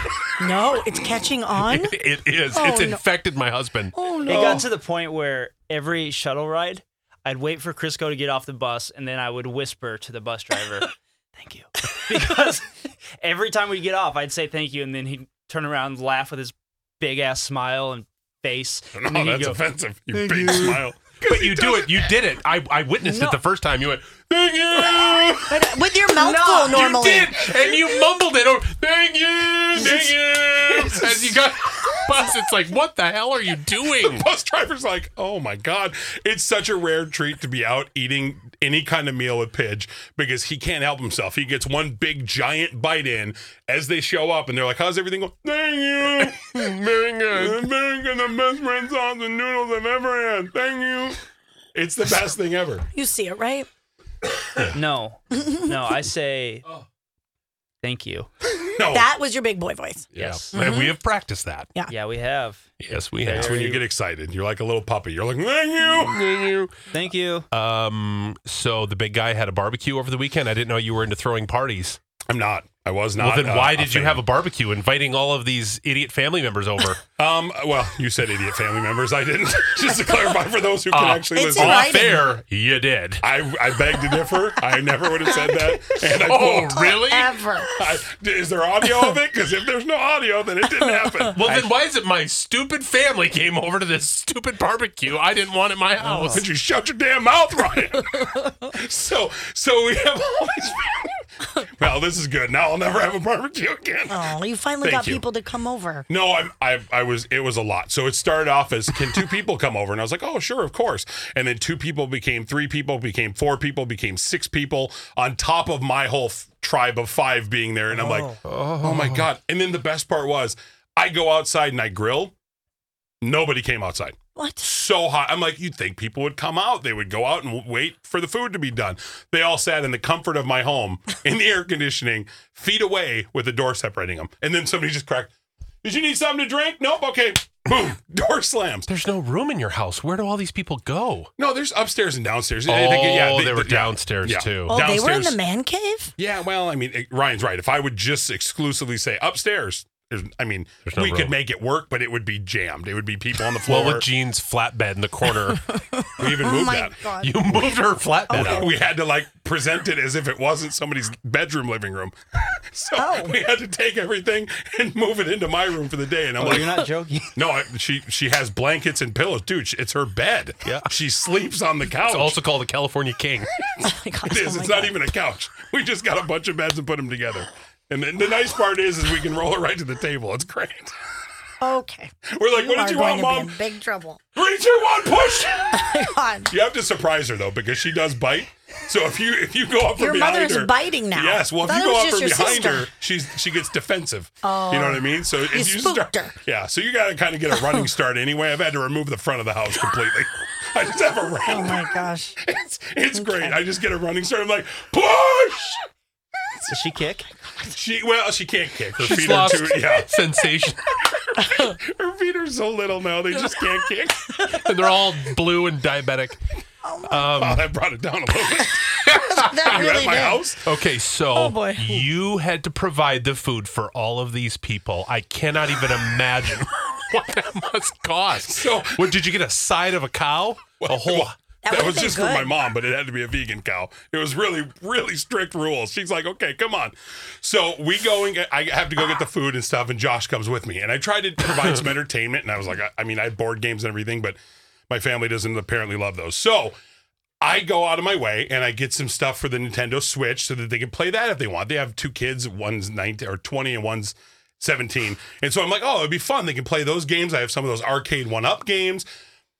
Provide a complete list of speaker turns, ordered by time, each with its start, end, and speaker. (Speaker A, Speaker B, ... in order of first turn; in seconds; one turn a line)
Speaker A: 0.4-1.9
Speaker B: 1.6-4.0
Speaker A: 2.5-3.0
Speaker A: 3.9-4.6
Speaker C: 4.2-19.6
Speaker D: 4.3-4.6
Speaker D: 18.9-22.1
Speaker B: 20.1-34.3
Speaker A: 23.0-23.4
Speaker A: 25.5-27.5
Speaker D: 29.7-31.4
Speaker D: 34.0-46.7
Speaker B: 46.2-47.7
Speaker D: 47.3-51.2
Speaker D: 51.7-52.9
Speaker A: 52.9-53.7
Speaker C: 54.7-56.6
Speaker A: 55.3-55.7
Speaker C: 57.8-58.3
Speaker D: 58.7-59.1
Speaker A: 58.9-60.9
Speaker D: 60.1-60.4
Speaker B: 60.1-61.7
Speaker C: 61.9-62.7
Speaker B: 62.8-63.6
Speaker C: 63.2-63.8
Speaker D: 63.3-66.2
Speaker B: 65.8-66.8
Speaker C: 66.9-67.5
Speaker B: 67.5-72.0
Speaker D: 72.3-74.2
Speaker B: 73.2-77.0
Speaker D: 77.2-82.2
Speaker B: 80.9-83.3
Speaker A: 81.3-82.3
Speaker D: 83.2-87.0
Speaker A: 85.4-85.7
Speaker B: 86.0-87.4
Speaker A: 86.6-87.8
Speaker D: 87.8-91.7
Speaker B: 91.3-96.5
Speaker D: 96.2-104.3
Speaker A: 104.1-106.0
Speaker D: 104.8-105.2
Speaker D: 106.1-122.3
Speaker A: 117.9-118.4
Speaker B: 118.4-119.3
Speaker D: 123.2-135.3
Speaker A: 124.3-124.7
Speaker D: 135.8-138.9
Speaker B: 138.9-141.3
Speaker D: 141.4-145.4
Speaker B: 142.7-144.8
Speaker A: 144.7-146.1
Speaker D: 146.2-154.0
Speaker B: 150.8-151.4
Speaker B: 153.6-155.7
Speaker A: 155.7-157.6
Speaker D: 156.2-157.0
Speaker B: 157.2-158.7
Speaker A: 158.3-158.7
Speaker D: 158.3-166.8
Speaker A: 163.0-163.3
Speaker C: 166.4-167.3
Speaker D: 167.3-172.4
Speaker B: 170.6-170.9
Speaker B: 172.0-173.5
Speaker A: 173.8-174.9
Speaker D: 173.8-180.9
Speaker A: 181.6-184.2
Speaker D: 182.3-183.5
Speaker D: 184.3-185.8
Speaker A: 185.7-186.5
Speaker D: 186.5-201.9
Speaker A: 189.9-192.9
Speaker A: 194.4-196.3
Speaker A: 201.5-202.4
Speaker D: 202.4-205.9
Speaker A: 203.1-203.6
Speaker C: 206.7-207.2
Speaker D: 207.7-210.1
Speaker B: 209.0-210.8
Speaker D: 211.1-214.5
Speaker B: 214.4-216.4
Speaker A: 216.8-217.2
Speaker B: 217.1-217.7
Speaker D: 217.2-220.6
Speaker A: 218.8-220.4
Speaker B: 220.6-231.3
Speaker A: 221.3-222.1
Speaker D: 228.4-229.1
Speaker D: 230.8-244.4
Speaker A: 231.6-232.5
Speaker D: 244.9-246.8
Speaker D: 247.4-259.1